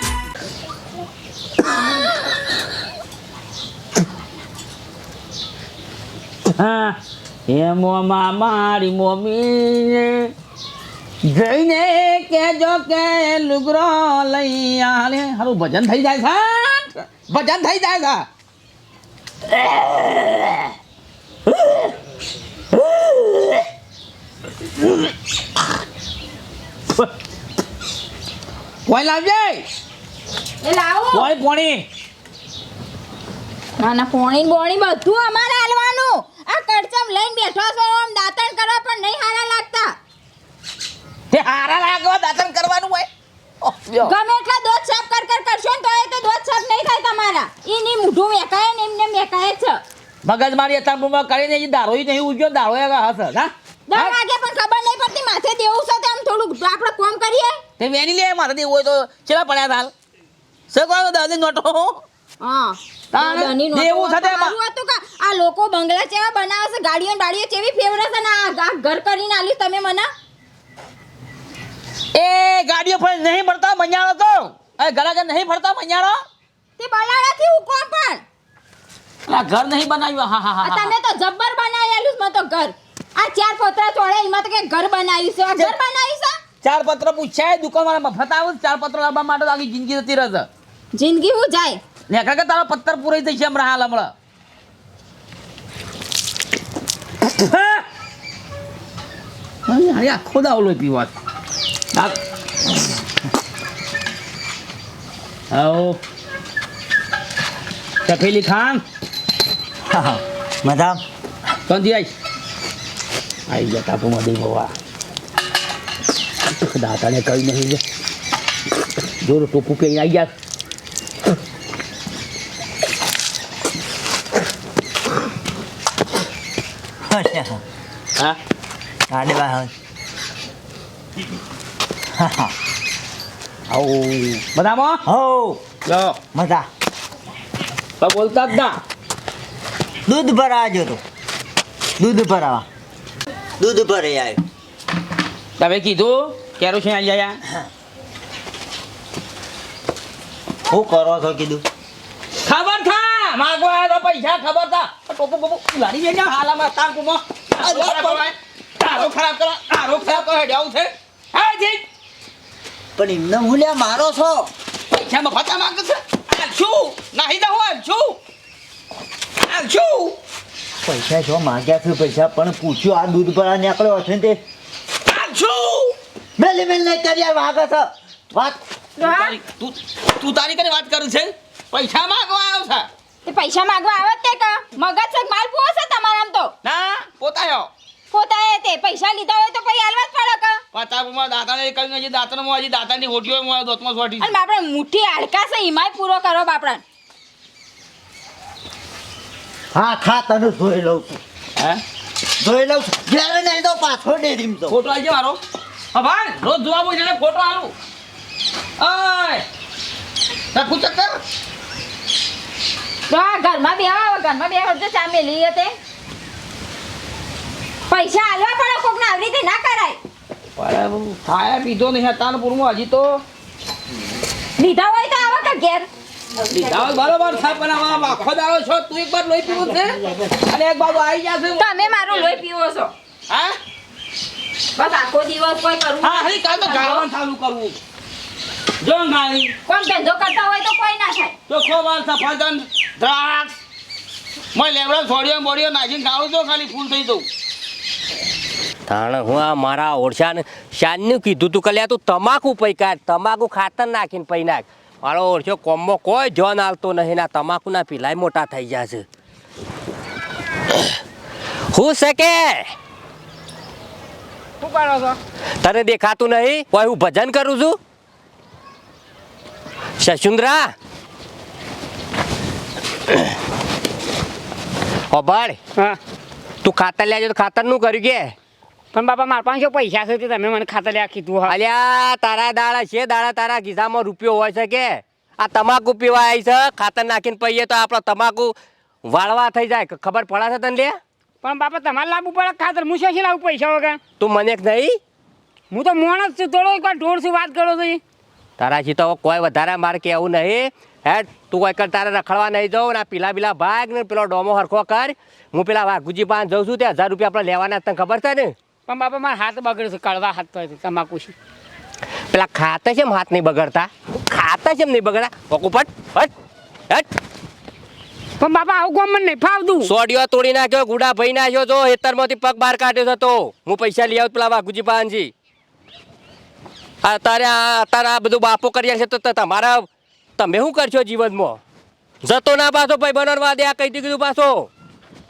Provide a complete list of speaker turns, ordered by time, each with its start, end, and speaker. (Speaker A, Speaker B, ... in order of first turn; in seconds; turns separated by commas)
Speaker A: 6.5-10.3, Speaker A: 11.3-18.3, Speaker A: 19.6-20.7, Speaker A: 21.6-21.9, Speaker A: 23.1-23.5, Speaker A: 28.9-29.7, Speaker B: 30.6-31.3, Speaker A: 31.1-31.9, Speaker B: 33.8-39.9, Speaker A: 41.3-43.1, Speaker A: 43.6-44.1, Speaker B: 44.0-49.8, Speaker A: 50.2-54.1, Speaker B: 53.9-57.6, Speaker A: 57.8-59.9, Speaker A: 60.7-62.0, Speaker B: 62.4-70.1, Speaker A: 63.1-64.5, Speaker A: 72.2-76.2, Speaker B: 76.8-78.2, Speaker A: 79.3-80.9, Speaker B: 80.6-86.4, Speaker A: 86.6-90.5, Speaker B: 90.9-91.8, Speaker A: 92.1-94.1, Speaker A: 97.3-97.9, Speaker A: 99.7-101.1, Speaker A: 105.5-106.0, Speaker A: 108.0-108.8, Speaker C: 109.9-111.0, Speaker A: 111.7-112.1, Speaker A: 113.5-114.7, Speaker A: 116.5-117.8, Speaker A: 119.2-120.3, Speaker C: 127.1-127.6, Speaker C: 129.1-129.7, Speaker C: 132.2-132.5, Speaker A: 133.7-135.0, Speaker C: 135.1-135.6, Speaker A: 135.9-136.2, Speaker C: 136.3-136.7, Speaker A: 138.0-138.8, Speaker C: 140.1-141.0, Speaker C: 142.0-142.7, Speaker C: 143.6-144.4, Speaker A: 145.6-147.4, Speaker C: 150.7-151.6, Speaker A: 152.4-161.8, Speaker C: 157.6-158.2, Speaker C: 163.0-164.5, Speaker A: 164.9-168.2, Speaker A: 169.4-170.2, Speaker C: 170.8-174.4, Speaker A: 175.1-176.0, Speaker C: 176.4-178.6, Speaker B: 179.0-179.4, Speaker A: 179.0-182.9, Speaker B: 183.2-186.5, Speaker A: 186.6-187.7, Speaker B: 188.1-190.6, Speaker A: 190.7-194.3, Speaker B: 194.2-196.8, Speaker C: 199.7-201.2, Speaker C: 202.4-204.8, Speaker A: 204.7-205.4, Speaker A: 205.9-207.8, Speaker A: 208.8-209.5, Speaker A: 210.5-211.2, Speaker B: 213.1-215.7, Speaker B: 217.9-220.0, Speaker A: 220.6-223.2, Speaker B: 224.6-225.9, Speaker A: 226.4-232.4, Speaker B: 231.6-232.9, Speaker A: 233.3-233.6, Speaker B: 234.8-237.1, Speaker A: 236.0-237.8, Speaker A: 238.8-239.6, Speaker B: 239.7-241.3, Speaker A: 241.5-243.6, Speaker A: 244.6-247.3, Speaker D: 248.9-259.1, Speaker D: 261.7-262.7, Speaker E: 264.6-265.2, Speaker D: 265.6-267.8, Speaker D: 270.0-270.7, Speaker D: 275.1-275.6, Speaker D: 276.6-278.3, Speaker E: 278.9-281.5, Speaker D: 281.5-291.0, Speaker E: 291.4-294.0, Speaker D: 294.2-295.0, Speaker E: 295.7-298.0, Speaker D: 298.6-308.5, Speaker E: 308.9-311.3, Speaker D: 312.3-316.3, Speaker E: 318.4-319.9, Speaker D: 319.9-325.3, Speaker D: 327.0-331.6, Speaker D: 332.2-334.7